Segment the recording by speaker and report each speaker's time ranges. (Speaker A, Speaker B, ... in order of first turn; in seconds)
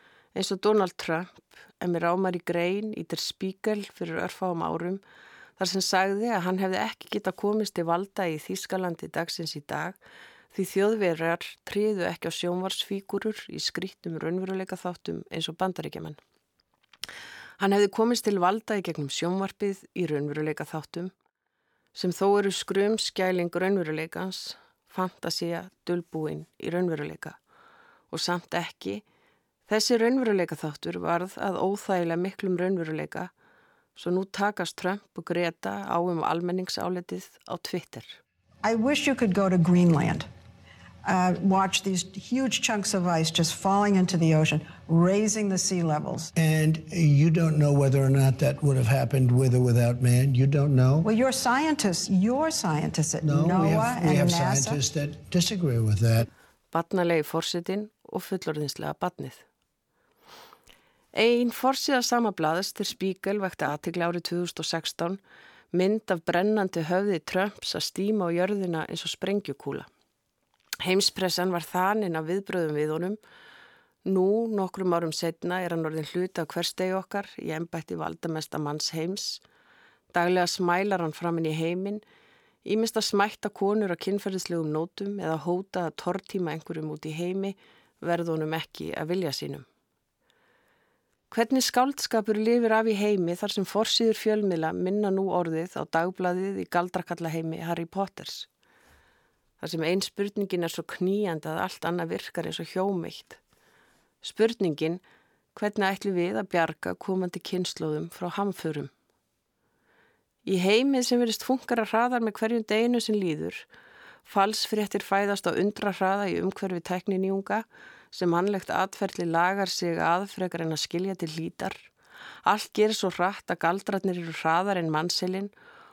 Speaker A: 0.3-5.0, 5.6-10.0, 10.5-16.2, 17.6-21.1, 21.9-27.4, 28.1-29.0, 29.7-33.3, 34.0-38.2, 56.7-59.4, 61.1-65.2, 65.7-69.9, 70.8-73.2, 74.0-79.4, 80.1-82.0, 82.7-89.7, 91.3-98.5, 99.6-103.4, 104.2-105.0, 105.5-108.9, 110.5-113.7, 114.3-121.8, 122.5-125.5
Speaker B: 38.6-40.3, 41.0-46.3, 51.0-54.8
Speaker C: 46.4-51.1, 53.2-56.3